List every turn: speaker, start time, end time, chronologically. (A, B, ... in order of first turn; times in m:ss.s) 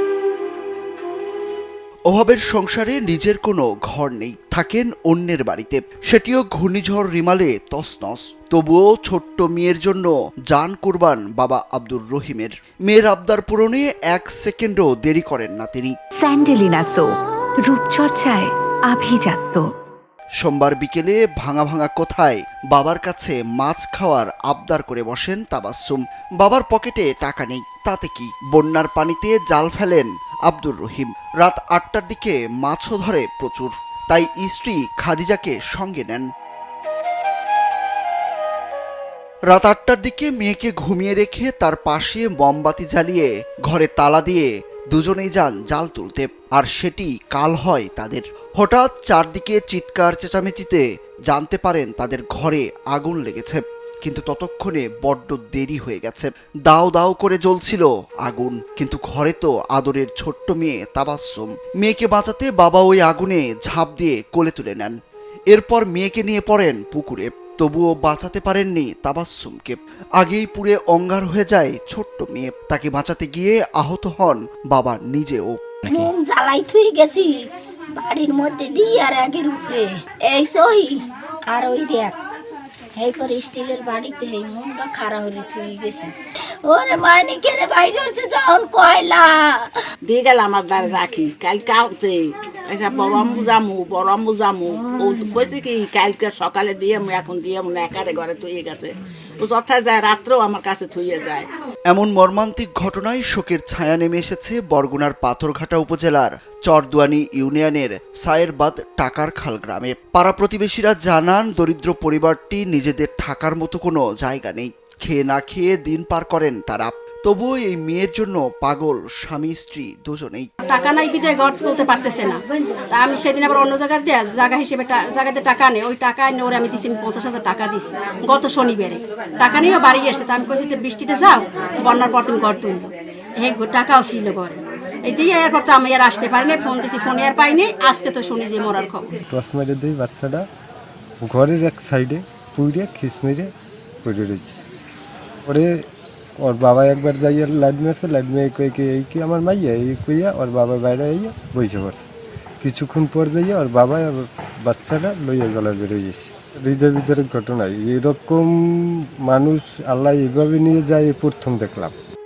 0:02.1-0:15.9 A
0:16.1-0:19.7 B
0:20.4-0:36.3 A
0:39.5-1:04.9 A
1:05.5-1:15.6 A
1:15.9-1:17.3 C
1:17.9-1:22.2 C
1:23.0-1:26.1 C
1:26.6-1:29.8 C
1:30.0-1:41.5 D
1:41.9-2:00.5 A
2:00.6-2:19.1 E
2:19.3-2:20.5 F
2:21.2-2:23.5 F
2:24.0-2:24.6 F
2:25.5-2:25.8 F
2:26.4-2:32.0 F
2:32.6-2:42.0 F